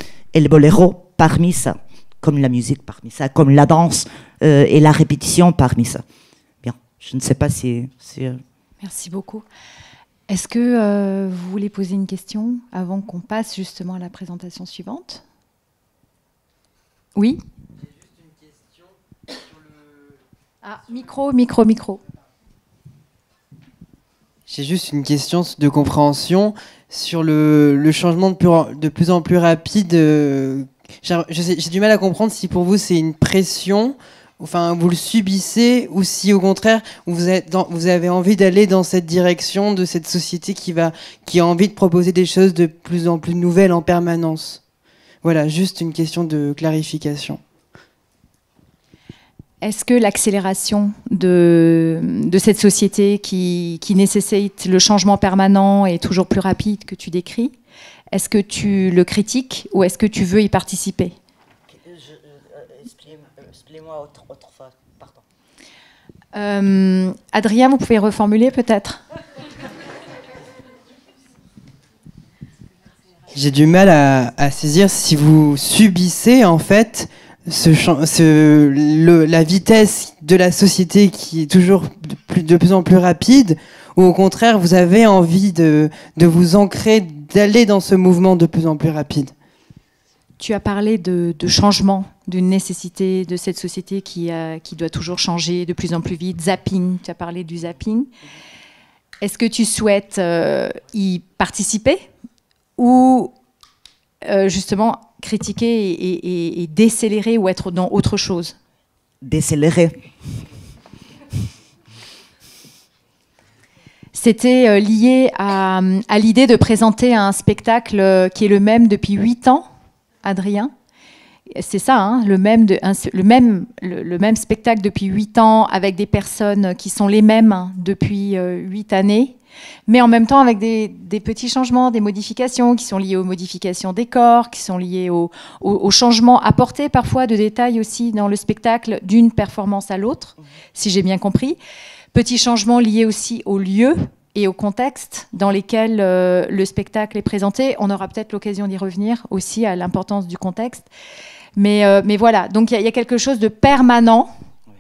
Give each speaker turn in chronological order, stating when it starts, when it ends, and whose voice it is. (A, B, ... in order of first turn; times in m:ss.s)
0:00.3-0:06.0 A
0:06.6-0:08.4 A
0:08.8-0:09.5 B
0:10.3-0:15.2 B
0:20.6-0:22.0 B
0:24.5-0:44.6 C
0:45.2-0:47.4 C
0:49.6-0:57.6 B
0:58.1-1:01.2 B
1:01.7-1:05.2 A
1:06.3-1:09.0 B
1:13.3-1:29.3 C
1:30.4-1:38.1 B
1:39.2-1:42.0 B
1:42.8-1:43.3 B
1:44.2-1:48.6 B
1:49.2-1:50.0 A
1:54.1-1:59.7 B
2:00.2-2:00.7 B
2:01.5-2:09.4 B
2:09.9-2:21.6 B
2:22.1-2:30.9 B
2:31.6-2:34.3 B